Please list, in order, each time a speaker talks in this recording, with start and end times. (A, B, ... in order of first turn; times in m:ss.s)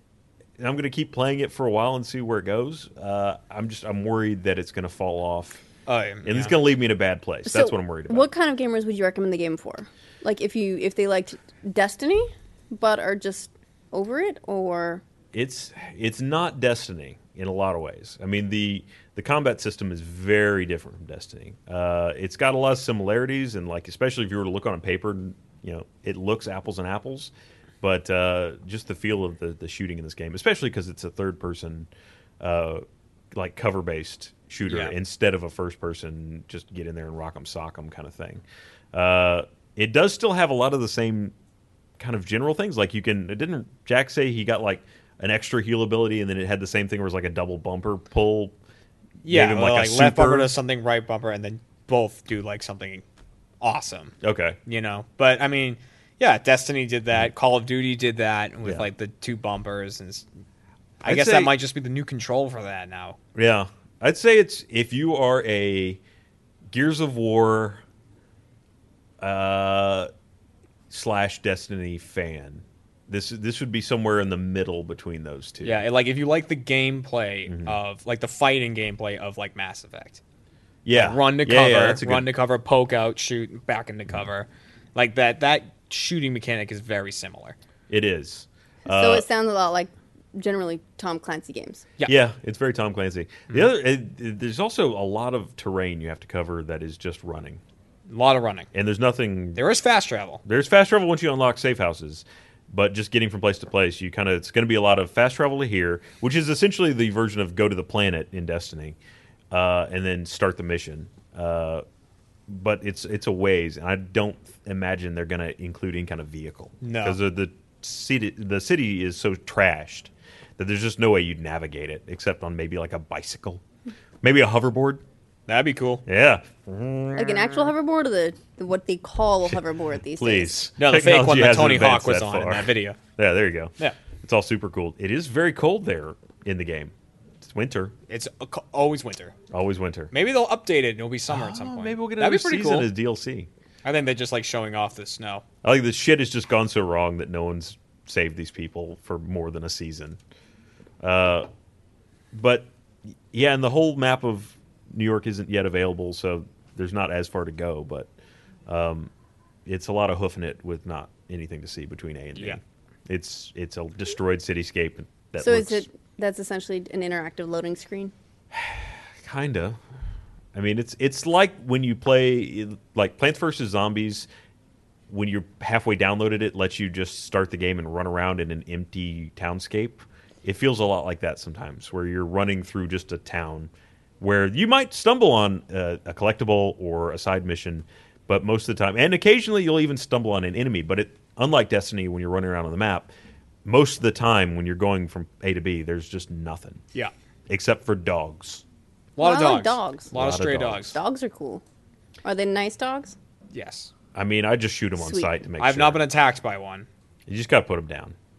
0:00.6-0:05.6 A
0:05.9-0:06.6 B
0:06.2-0:08.3 A
0:07.5-0:15.0 C
0:15.3-0:31.9 A
0:32.4-0:41.3 A
0:34.7-0:34.9 B
0:42.0-0:48.5 A
0:49.2-0:53.0 B
0:49.2-0:50.5 A
0:53.6-0:54.2 B
0:54.2-0:54.6 A
0:54.7-1:00.2 B
1:01.0-1:03.2 B
1:01.0-1:01.5 A
1:03.4-1:06.0 A
1:06.7-1:07.8 A
1:09.2-1:10.1 A
1:10.9-1:15.8 A
1:15.6-1:20.2 B
1:17.5-1:17.8 A
1:20.8-1:22.3 A
1:20.9-1:27.6 B
1:27.9-1:29.3 A
1:28.9-1:31.8 C
1:32.1-1:37.6 A
1:38.1-1:38.7 B
1:38.7-1:39.6 A
1:39.6-1:40.4 B
1:40.4-1:49.0 A
1:49.5-1:51.8 A
1:52.5-2:03.6 A
1:56.8-1:57.2 B
2:04.2-2:05.0 A
2:05.5-2:06.0 B
2:06.1-2:07.4 A
2:07.2-2:10.5 C
2:10.2-2:17.9 A
2:10.8-2:13.0 B
2:18.1-2:19.4 B
2:19.5-2:20.1 A
2:20.1-2:22.9 B
2:21.3-2:23.5 A
2:23.8-2:25.4 B
2:25.6-2:30.2 A
2:31.0-2:31.5 A
2:32.3-2:32.7 A
2:33.3-2:38.1 A
2:38.7-2:39.1 A
2:39.7-2:45.8 A
2:45.4-2:48.1 C
2:48.5-2:49.8 A
2:50.5-2:54.3 A
2:55.1-3:13.1 A
3:13.6-3:16.8 A
3:17.5-3:18.6 A
3:19.2-3:21.0 B
3:19.2-3:20.1 C
3:20.1-3:20.9 A
3:20.8-3:21.6 C
3:22.2-3:23.2 C
3:23.5-3:23.9 B
3:24.2-3:26.0 A
3:25.0-3:25.3 C
3:25.6-3:26.9 B
3:27.3-3:28.2 A